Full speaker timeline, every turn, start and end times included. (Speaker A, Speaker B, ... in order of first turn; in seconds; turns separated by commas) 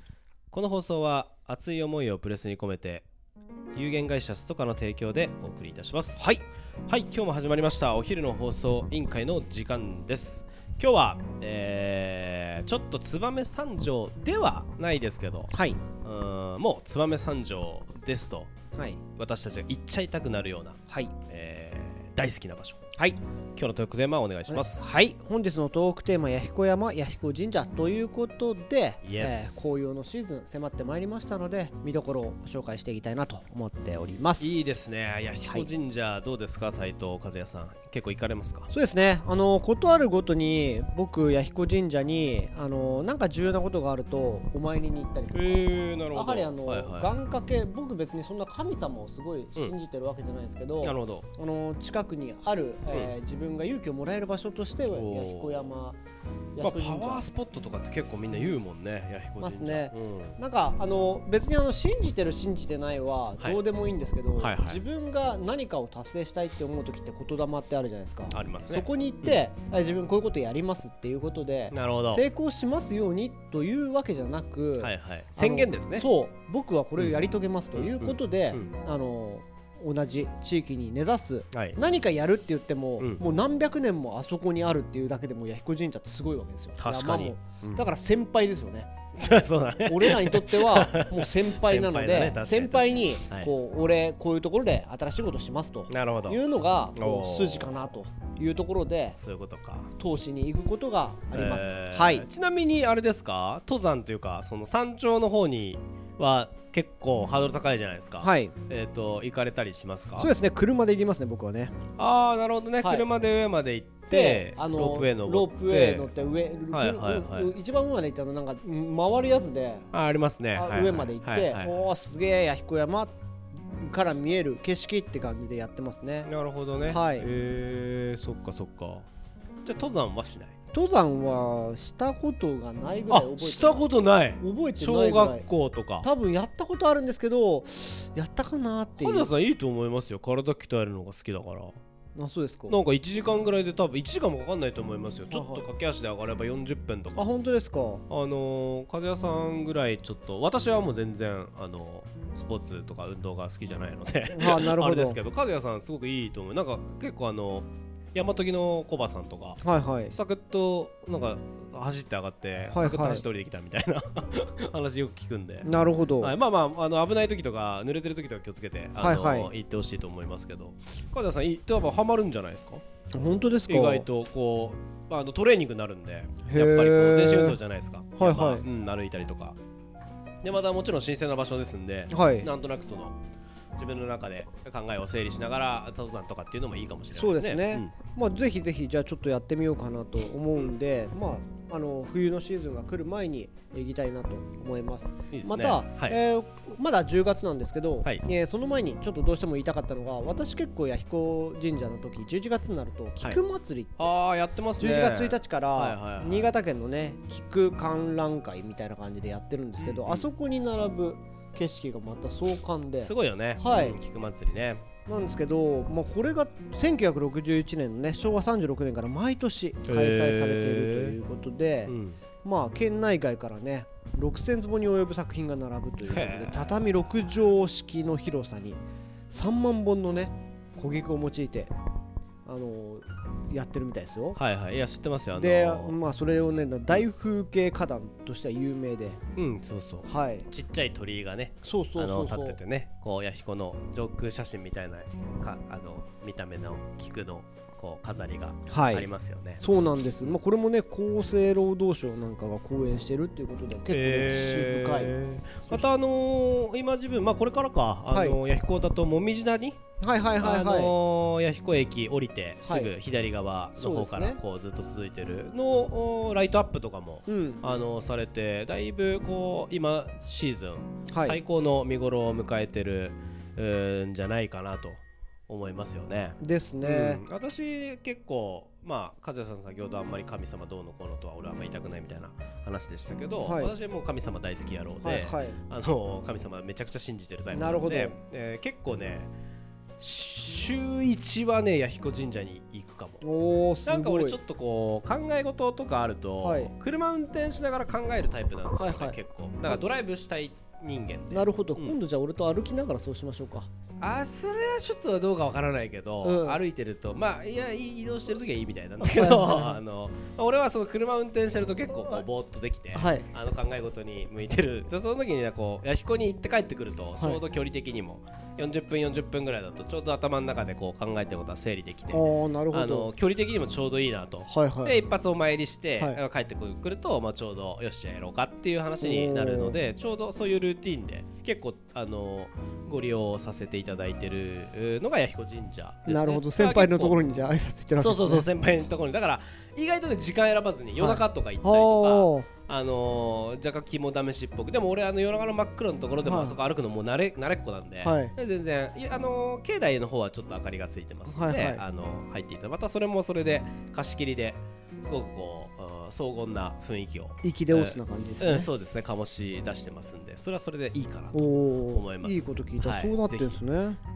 Speaker A: 0.5-3.0, Speaker A: 3.7-6.3, Speaker B: 6.2-6.4, Speaker A: 6.9-18.5, Speaker B: 15.5-15.8, Speaker B: 18.7-19.0, Speaker A: 19.1-22.8, Speaker B: 20.9-21.1, Speaker A: 23.6-24.9, Speaker B: 24.5-34.8, Speaker A: 29.0-29.7, Speaker A: 34.4-38.7, Speaker B: 38.7-56.0, Speaker A: 45.3-47.1, Speaker A: 50.8-51.2, Speaker A: 54.9-55.7, Speaker B: 56.5-57.2, Speaker A: 56.6-60.4, Speaker B: 59.4-99.2, Speaker A: 64.4-64.8, Speaker A: 68.3-69.4, Speaker A: 71.7-72.2, Speaker A: 74.8-76.1, Speaker A: 77.7-78.7, Speaker A: 81.5-81.8, Speaker A: 86.8-87.9, Speaker A: 89.2-93.5, Speaker A: 95.9-96.4, Speaker A: 97.0-97.9, Speaker A: 99.2-99.9, Speaker B: 100.0-102.2, Speaker A: 101.3-110.3, Speaker B: 108.2-108.5, Speaker B: 110.2-111.8, Speaker A: 112.0-116.1, Speaker B: 112.8-113.1, Speaker B: 114.1-119.9, Speaker A: 116.7-117.5, Speaker A: 119.9-121.7, Speaker B: 120.5-123.1, Speaker B: 123.8-126.3, Speaker A: 126.2-129.1, Speaker B: 126.9-127.3, Speaker A: 129.6-130.5, Speaker B: 130.7-133.9, Speaker A: 133.1-136.1, Speaker B: 134.4-135.4, Speaker B: 136.0-139.3, Speaker A: 139.0-141.8, Speaker B: 142.2-142.8, Speaker A: 142.7-147.2, Speaker B: 145.3-145.6, Speaker B: 147.1-148.1, Speaker A: 148.1-165.7, Speaker B: 154.3-155.2, Speaker B: 159.6-160.1, Speaker B: 162.7-163.2, Speaker B: 165.6-166.3, Speaker A: 166.2-172.8, Speaker B: 169.0-169.5, Speaker B: 173.1-174.1, Speaker A: 173.7-179.6, Speaker B: 176.4-177.6, Speaker B: 178.2-178.6, Speaker A: 180.4-183.2, Speaker B: 182.1-182.5, Speaker A: 183.8-187.9, Speaker B: 187.1-204.1, Speaker A: 195.3-196.2, Speaker A: 204.0-206.5, Speaker B: 204.8-214.0, Speaker A: 209.8-210.2, Speaker A: 212.9-214.8, Speaker B: 215.1-231.7, Speaker A: 219.9-221.2, Speaker A: 221.8-222.2, Speaker A: 226.0-226.8, Speaker B: 232.4-234.4, Speaker A: 234.3-236.0, Speaker B: 235.4-239.2, Speaker A: 239.3-249.6, Speaker B: 240.1-240.5, Speaker B: 241.6-242.6, Speaker B: 248.7-249.1, Speaker B: 249.6-255.1, Speaker A: 253.9-259.8, Speaker B: 258.1-258.4, Speaker B: 260.0-260.9, Speaker A: 260.4-289.3, Speaker B: 262.6-262.9, Speaker B: 263.8-264.4, Speaker B: 267.3-267.6, Speaker B: 271.1-271.4, Speaker B: 276.4-277.2, Speaker B: 283.4-283.7, Speaker B: 285.0-285.6, Speaker B: 287.5-288.2, Speaker A: 290.0-293.2, Speaker B: 293.2-294.4, Speaker A: 293.9-301.9, Speaker B: 296.4-296.7, Speaker B: 298.8-300.0, Speaker B: 301.3-303.7, Speaker A: 304.0-337.2, Speaker B: 306.2-306.6, Speaker B: 309.0-309.8, Speaker B: 312.9-313.3, Speaker B: 322.1-323.1, Speaker B: 324.5-325.0, Speaker B: 329.0-329.8, Speaker B: 336.1-338.5, Speaker A: 337.9-363.6, Speaker B: 341.0-342.5, Speaker B: 346.2-346.6, Speaker B: 348.0-348.3, Speaker B: 351.3-351.8, Speaker B: 357.4-358.7, Speaker B: 361.3-364.0